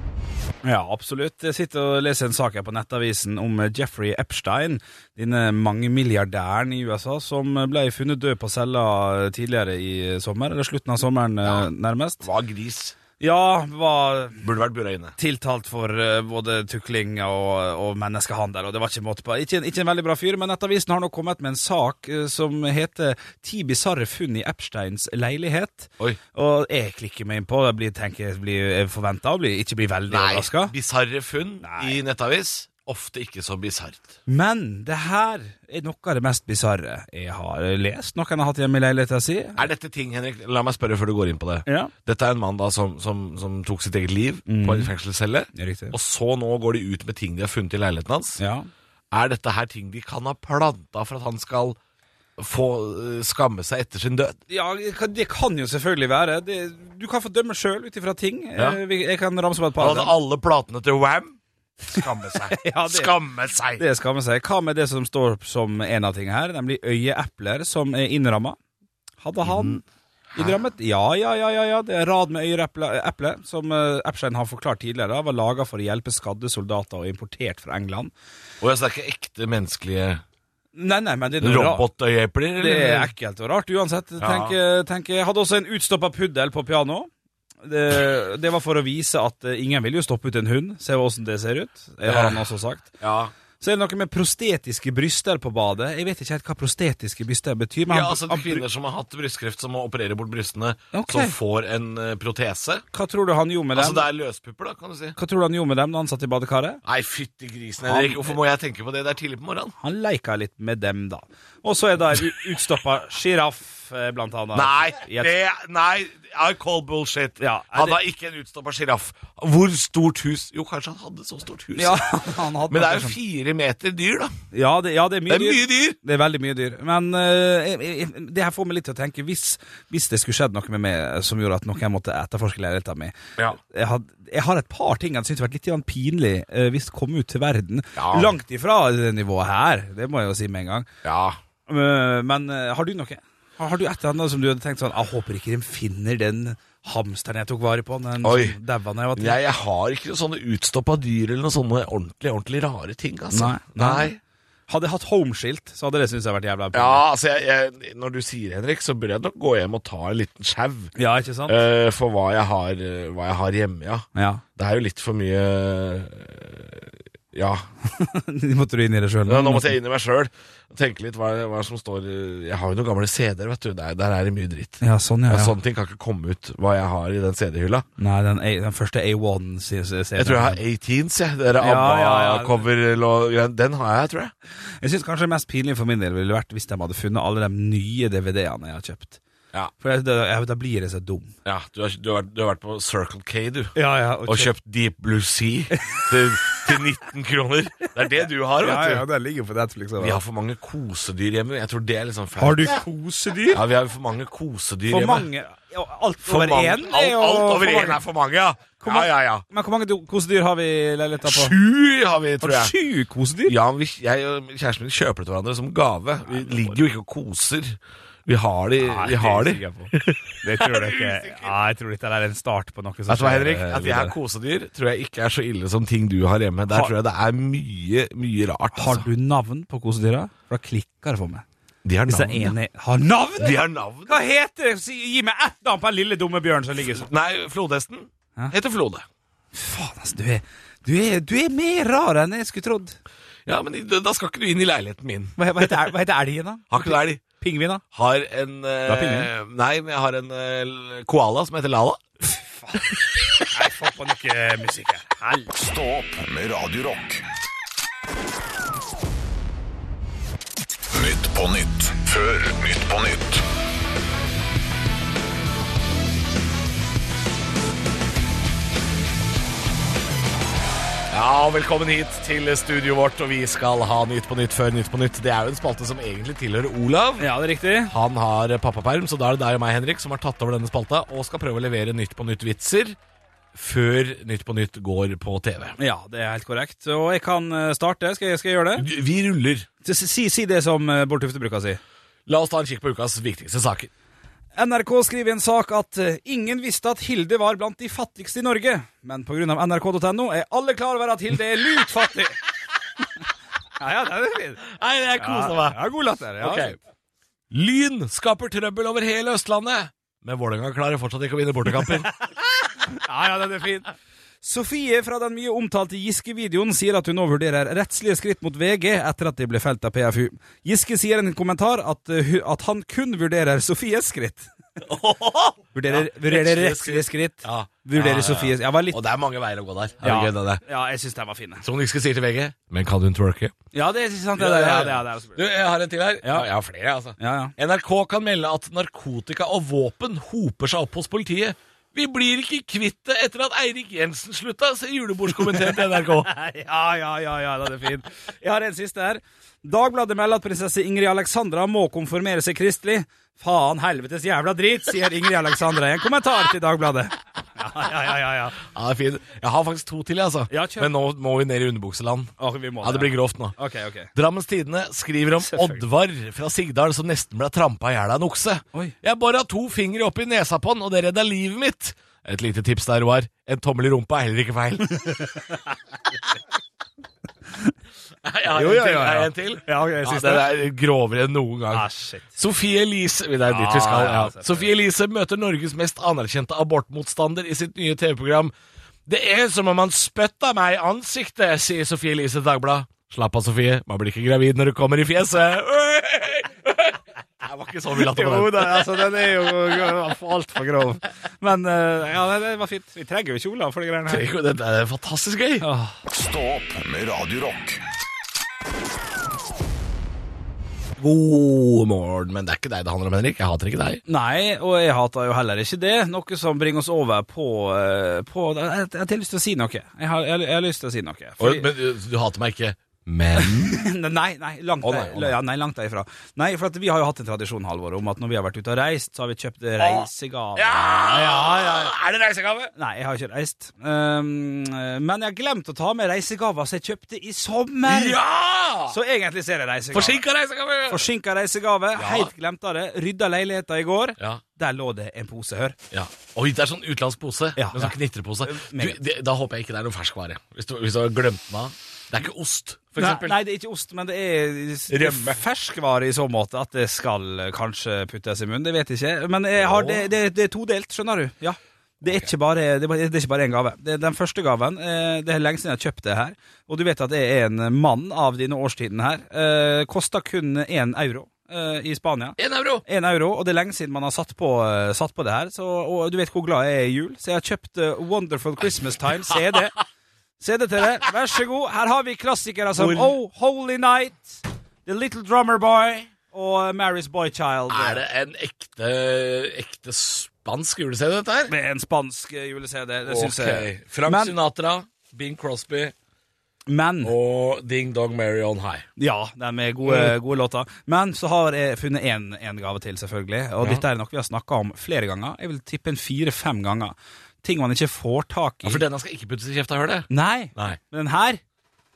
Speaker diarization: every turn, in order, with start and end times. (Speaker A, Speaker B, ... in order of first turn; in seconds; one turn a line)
Speaker A: 0.6-12.2
Speaker B: 12.2-13.0
Speaker A: 13.2-14.4
Speaker B: 14.4-15.2
Speaker A: 15.2-30.7
Speaker B: 30.1-34.1
Speaker A: 31.6-32.0
Speaker A: 34.3-39.7
Speaker B: 39.6-48.4
Speaker A: 41.7-41.9
Speaker A: 44.5-44.9
Speaker A: 45.5-46.0
Speaker A: 48.4-48.7
Speaker B: 49.1-51.8
Speaker B: 52.4-54.4
Speaker A: 54.5-60.1
Speaker B: 59.8-63.8
Speaker A: 62.5-63.2
Speaker A: 63.8-68.6
Speaker A: 69.2-69.8
Speaker B: 69.4-69.8
Speaker A: 70.3-78.1
Speaker B: 78.6-80.2
Speaker A: 80.8-81.8
Speaker B: 81.4-83.1
Speaker A: 82.6-87.1
Speaker B: 84.2-84.6
Speaker A: 87.6-92.9
Speaker B: 92.1-92.5
Speaker B: 93.0-93.3
Speaker A: 93.6-98.6
Speaker B: 97.9-102.8
Speaker A: 100.9-101.3
Speaker A: 102.9-104.1
Speaker B: 103.7-105.2
Speaker A: 105.2-106.8
Speaker B: 106.8-109.7
Speaker A: 107.8-108.3
Speaker A: 109.8-115.3
Speaker B: 114.5-122.2
Speaker A: 117.4-118.0
Speaker A: 121.8-123.2
Speaker B: 122.7-124.3
Speaker A: 124.5-133.1
Speaker B: 125.3-126.0
Speaker A: 133.7-140.9
Speaker B: 138.0-138.3
Speaker B: 141.0-141.4
Speaker A: 141.7-149.4
Speaker B: 148.2-148.6
Speaker B: 149.2-154.2
Speaker A: 153.3-154.1
Speaker A: 154.7-157.0
Speaker B: 156.7-160.9
Speaker A: 161.0-161.6
Speaker B: 161.5-167.7
Speaker A: 164.2-164.4
Speaker A: 167.9-169.8
Speaker B: 169.3-177.9
Speaker A: 174.8-175.5
Speaker A: 178.0-180.6
Speaker B: 180.2-184.3
Speaker A: 181.6-182.7
Speaker A: 184.8-189.2
Speaker A: 189.8-191.3
Speaker B: 191.4-193.8
Speaker A: 193.8-194.5
Speaker B: 194.3-199.0
Speaker A: 195.9-196.6
Speaker A: 198.6-200.2
Speaker B: 200.0-202.8
Speaker A: 202.4-203.6
Speaker B: 203.5-205.3
Speaker A: 204.9-208.0
Speaker B: 206.3-209.4
Speaker A: 208.8-211.6
Speaker B: 211.2-212.7
Speaker A: 212.4-213.6
Speaker B: 213.5-221.5
Speaker A: 216.3-216.8
Speaker A: 218.8-224.1
Speaker B: 223.1-229.1
Speaker A: 228.8-231.4
Speaker B: 231.8-232.6
Speaker A: 232.1-237.1
Speaker B: 233.4-234.2
Speaker B: 236.9-239.1
Speaker A: 239.5-243.0
Speaker B: 243.5-245.9
Speaker A: 245.4-247.8
Speaker B: 246.7-247.2
Speaker B: 247.9-252.0
Speaker A: 248.9-249.3
Speaker A: 252.3-252.9
Speaker A: 253.5-255.5
Speaker C: 255.5-257.2
Speaker C: 260.9-263.4
Speaker B: 271.1-277.3
Speaker A: 277.2-277.9
Speaker B: 277.8-283.0
Speaker B: 283.5-285.8
Speaker A: 285.8-288.9
Speaker B: 288.8-289.7
Speaker A: 289.8-291.8
Speaker B: 292.3-293.9
Speaker A: 294.6-302.4
Speaker A: 303.8-304.7
Speaker B: 304.7-305.8
Speaker A: 305.2-306.8
Speaker B: 306.4-306.8
Speaker B: 307.5-312.1
Speaker A: 312.9-313.9
Speaker A: 314.4-324.5
Speaker B: 324.8-330.6
Speaker A: 325.7-329.0
Speaker A: 330.0-331.6
Speaker B: 331.6-333.6
Speaker A: 333.7-335.4
Speaker B: 334.4-346.3
Speaker A: 336.2-336.5
Speaker A: 337.2-337.6
Speaker A: 345.4-358.6
Speaker B: 358.6-363.6
Speaker A: 360.5-360.9
Speaker A: 362.4-364.1
Speaker B: 364.1-375.2
Speaker A: 365.4-365.8
Speaker A: 375.0-375.6
Speaker B: 378.2-388.5
Speaker A: 378.5-380.6
Speaker A: 381.7-382.3
Speaker A: 383.5-384.7
Speaker B: 389.1-399.0
Speaker A: 397.9-404.2
Speaker B: 404.1-405.7
Speaker A: 405.6-406.0
Speaker C: 406.1-407.8
Speaker B: 411.0-414.0
Speaker A: 414.1-421.7
Speaker B: 421.4-423.8
Speaker A: 423.4-431.9
Speaker B: 424.8-425.4
Speaker B: 429.8-432.7
Speaker A: 432.8-438.2
Speaker B: 437.9-439.0
Speaker A: 438.9-440.2
Speaker B: 439.9-441.1
Speaker A: 440.9-445.8
Speaker B: 442.0-442.3
Speaker B: 445.9-453.4
Speaker A: 447.6-449.0
Speaker A: 453.0-479.8
Speaker B: 454.9-455.4
Speaker B: 459.6-460.1
Speaker B: 472.4-472.8
Speaker A: 480.4-488.0
Speaker B: 482.8-483.1
Speaker B: 487.7-491.5
Speaker A: 491.5-494.4
Speaker B: 493.1-495.9
Speaker A: 496.7-497.1
Speaker B: 497.0-498.9
Speaker A: 499.0-508.8
Speaker B: 499.8-500.1
Speaker B: 508.6-510.8
Speaker A: 510.1-511.4